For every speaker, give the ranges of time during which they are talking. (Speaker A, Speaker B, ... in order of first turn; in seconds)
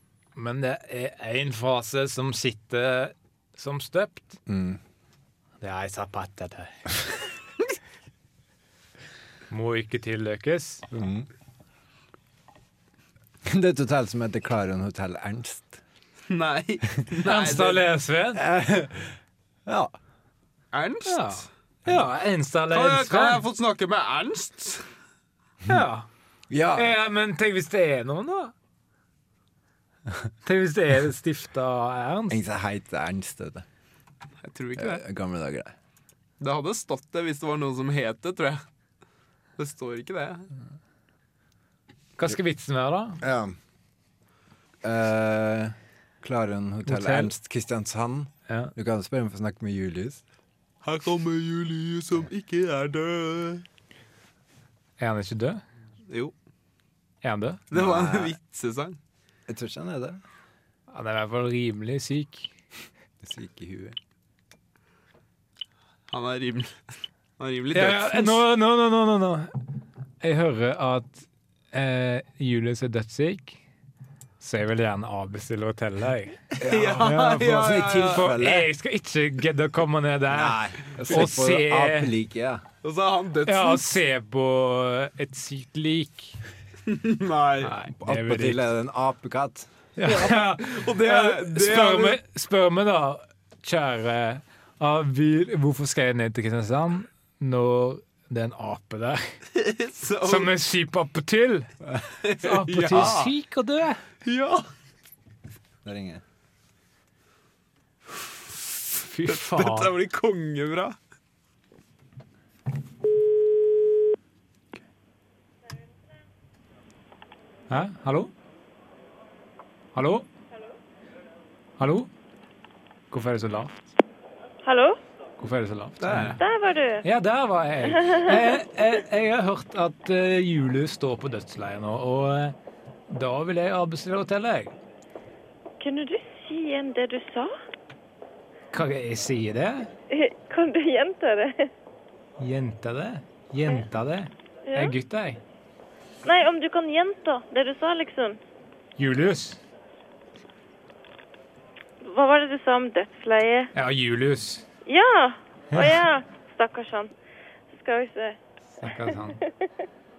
Speaker A: 0.4-4.4, 5.6-6.9, 9.5-10.9, 17.2-18.4, 21.1-23.4, 25.7-26.1, 26.8-28.5, 30.4-32.4, 42.2-43.2, 46.9-47.3, 48.5-48.7, 55.0-55.6, 57.2-57.6, 60.9-62.5, 67.7-69.5, 70.2-73.6, 74.4-82.1, 83.5-86.4, 87.6-88.7, 90.0-99.3, 100.2-101.7, 102.4-104.0, 108.9-109.9, 117.7-118.3, 120.0-120.3, 121.8-122.1, 123.1-123.8, 125.4-126.4, 127.0-132.6, 133.1-134.8, 138.7-139.9, 142.4-145.4, 149.0-149.6, 153.8-154.7, 155.7-156.0, 158.8-159.4
Speaker B: 4.5-4.8, 10.9-11.3, 13.4-15.8, 18.4-19.9, 26.5-26.9, 32.3-33.7, 34.8-35.7, 43.2-43.6, 44.8-50.2, 57.7-58.4, 59.5-60.2, 63.2-64.0, 76.6-78.7, 80.3-82.6, 88.0-89.7, 105.8-106.2
Speaker C: 16.3-17.8, 20.7-21.5, 22.7-24.9, 34.4-35.0, 36.4-38.6, 39.6-40.5, 50.8-53.6, 56.1-56.3, 57.7-59.0, 66.1-66.7, 67.4-68.4, 76.6-78.4, 82.8-83.9, 86.9-87.7, 90.0-92.2, 99.5-100.5, 102.2-103.3, 104.2-104.7, 109.2-111.0, 126.0-126.4
Speaker D: 124.6-125.0, 126.4-127.0, 135.8-137.5, 140.1-141.7, 144.7-144.9, 146.2-148.4, 152.0-153.7, 154.9-157.1, 157.7-158.4